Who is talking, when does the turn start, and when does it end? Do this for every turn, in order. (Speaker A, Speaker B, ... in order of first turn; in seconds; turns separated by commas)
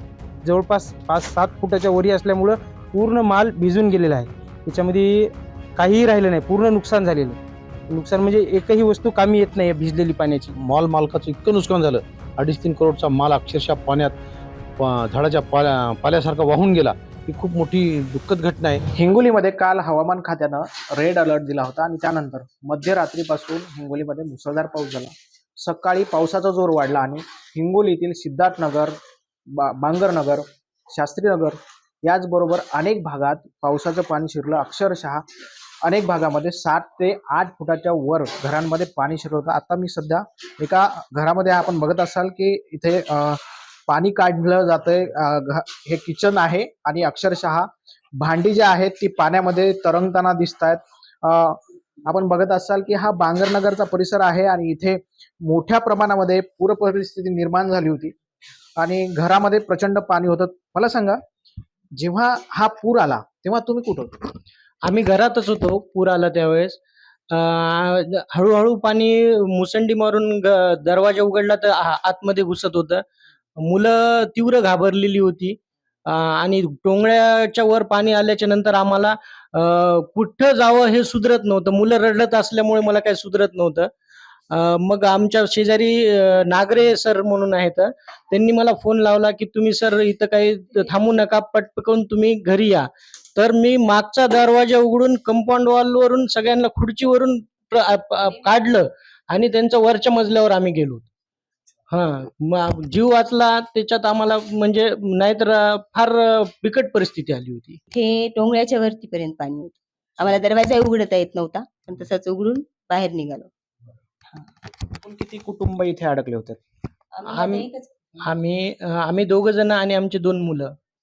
Speaker A: 0.4-10.5, Speaker B: 10.6-14.1, Speaker B: 14.8-18.8, Speaker C: 18.9-28.9, Speaker C: 29.6-35.2, Speaker C: 35.8-58.1, Speaker C: 58.8-61.2, Speaker C: 61.9-64.3, Speaker D: 64.8-66.8, Speaker D: 67.3-73.0, Speaker D: 73.7-75.6, Speaker D: 76.1-83.9, Speaker D: 84.5-92.8, Speaker D: 93.4-101.1, Speaker D: 101.9-107.8, Speaker E: 107.9-113.5, Speaker C: 114.9-116.6, Speaker E: 117.2-117.9, Speaker D: 117.2-120.7